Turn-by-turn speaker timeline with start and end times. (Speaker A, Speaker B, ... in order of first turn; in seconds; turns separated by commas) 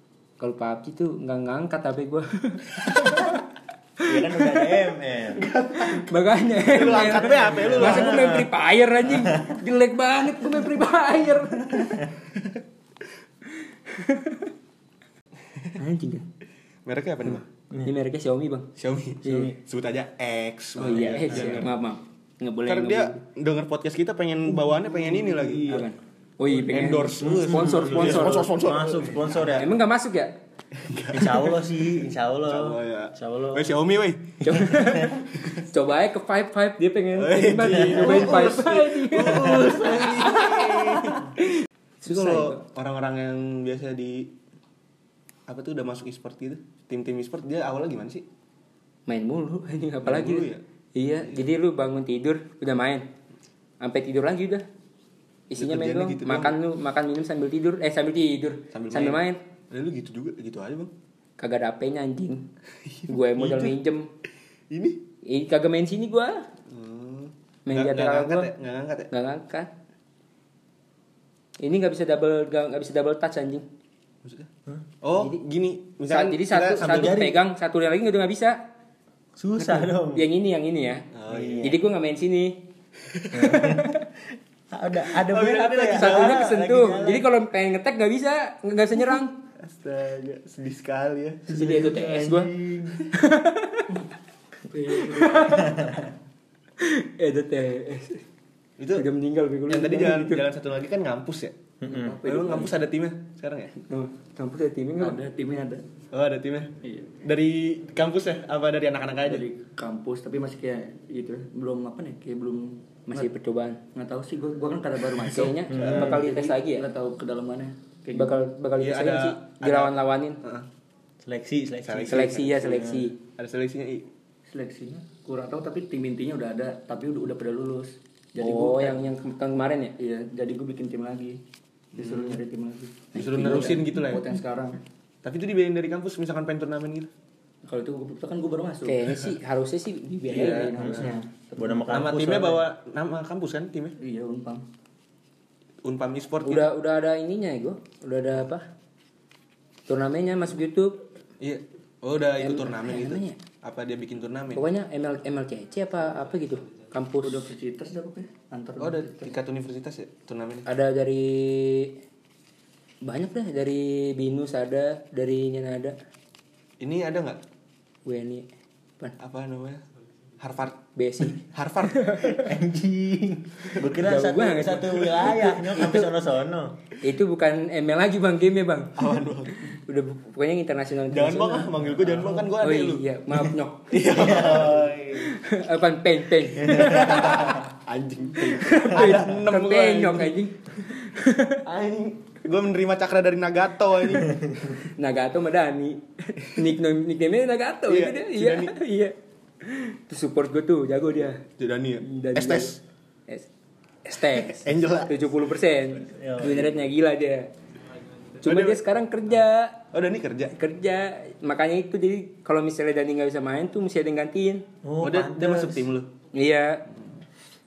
Speaker A: 0.4-3.4, Speaker B: 4.0-5.5, Speaker A: 4.1-4.8, Speaker C: 5.3-6.0, Speaker A: 5.8-12.1, Speaker C: 6.6-8.3, Speaker B: 7.1-8.5, Speaker A: 13.9-14.5, Speaker A: 15.8-16.3, Speaker C: 16.9-17.4, Speaker A: 17.3-18.7, Speaker C: 18.8-21.7, Speaker B: 19.2-19.5, Speaker A: 19.2-19.5, Speaker B: 20.8-21.6, Speaker A: 20.8-23.2, Speaker C: 22.6-25.8, Speaker A: 24.7-28.5, Speaker B: 25.4-25.8, Speaker C: 26.5-29.5, Speaker B: 27.2-29.8, Speaker A: 29.5-30.4, Speaker C: 30.8-34.4, Speaker B: 31.1-33.7, Speaker A: 34.4-41.5, Speaker B: 34.6-35.1, Speaker C: 37.1-41.2, Speaker A: 42.0-42.6, Speaker C: 42.1-44.3, Speaker C: 45.5-48.2, Speaker A: 49.1-53.1, Speaker C: 50.0-50.6, Speaker A: 53.8-54.6, Speaker A: 55.5-59.4, Speaker C: 55.6-56.6, Speaker C: 58.7-60.9, Speaker A: 61.4-62.4, Speaker C: 62.8-63.8, Speaker A: 63.1-64.1, Speaker C: 64.7-65.0, Speaker A: 65.2-66.5, Speaker C: 66.7-69.1, Speaker A: 67.7-68.5, Speaker A: 69.1-69.7, Speaker A: 71.6-73.6, Speaker C: 74.2-74.5, Speaker C: 75.0-77.2, Speaker A: 76.1-78.6, Speaker B: 76.8-77.4, Speaker B: 79.3-80.2, Speaker A: 79.6-81.1, Speaker C: 81.1-81.8, Speaker B: 81.3-81.8, Speaker A: 81.6-82.7, Speaker C: 83.1-83.6, Speaker B: 83.3-84.0, Speaker A: 83.5-84.0, Speaker B: 84.7-87.3, Speaker C: 85.2-86.4, Speaker A: 85.9-89.4, Speaker C: 89.6-91.5, Speaker B: 91.5-93.0, Speaker A: 91.5-92.5, Speaker A: 93.1-93.9, Speaker D: 94.6-95.9, Speaker A: 94.9-95.9, Speaker B: 95.6-96.0, Speaker A: 96.8-98.2, Speaker C: 98.8-99.1, Speaker A: 99.0-100.4, Speaker C: 99.7-101.5, Speaker B: 101.8-102.2, Speaker D: 101.8-102.8, Speaker C: 102.2-103.7, Speaker A: 103.8-105.2, Speaker D: 105.0-105.8, Speaker C: 106.1-106.7, Speaker D: 106.8-107.1, Speaker C: 107.2-109.4, Speaker D: 109.2-113.3, Speaker A: 113.1-113.8, Speaker D: 113.9-118.4, Speaker A: 115.2-116.9, Speaker B: 115.7-116.2, Speaker C: 115.7-116.2, Speaker A: 118.1-120.4, Speaker C: 118.8-120.7, Speaker B: 121.2-123.1, Speaker C: 121.8-122.5, Speaker A: 122.1-123.2, Speaker C: 123.4-124.1, Speaker D: 124.5-129.1, Speaker A: 128.4-129.9, Speaker D: 130.0-131.4, Speaker D: 131.9-134.8, Speaker C: 131.9-132.4, Speaker A: 133.1-133.9, Speaker C: 133.1-134.3, Speaker C: 135.2-137.1, Speaker D: 137.6-139.2, Speaker A: 138.8-140.9, Speaker D: 140.3-142.3, Speaker C: 140.3-141.2, Speaker B: 140.8-142.7, Speaker C: 141.9-144.0, Speaker D: 144.0-144.6, Speaker C: 145.8-146.7, Speaker A: 146.4-148.7, Speaker A: 149.9-151.0, Speaker C: 151.4-154.7, Speaker A: 152.4-153.4, Speaker A: 154.5-157.5, Speaker D: 157.2-159.3, Speaker C: 158.8-160.7, Speaker A: 160.7-162.0, Speaker A: 163.0-165.9, Speaker C: 166.8-167.4, Speaker A: 168.0-168.5, Speaker C: 169.2-169.8, Speaker C: 170.4-172.3, Speaker A: 170.9-172.5, Speaker B: 172.4-176.7, Speaker A: 174.0-176.1, Speaker A: 177.0-179.1, Speaker C: 179.0-179.5, Speaker A: 179.7-181.8, Speaker C: 181.1-183.1, Speaker B: 182.0-182.4, Speaker A: 182.6-184.3, Speaker C: 183.9-184.9, Speaker B: 184.0-185.3, Speaker A: 185.1-187.6, Speaker B: 186.6-187.6, Speaker C: 186.6-190.4, Speaker A: 188.4-191.6, Speaker C: 191.6-194.8, Speaker A: 194.8-201.4, Speaker C: 197.9-198.7, Speaker C: 201.5-202.8, Speaker A: 202.0-202.7, Speaker A: 204.0-207.5, Speaker C: 204.3-205.3, Speaker B: 206.1-206.7, Speaker C: 208.4-208.8, Speaker A: 208.4-209.8, Speaker C: 209.9-210.5, Speaker A: 210.5-214.7, Speaker B: 214.8-215.8, Speaker C: 215.0-216.1, Speaker A: 216.3-216.8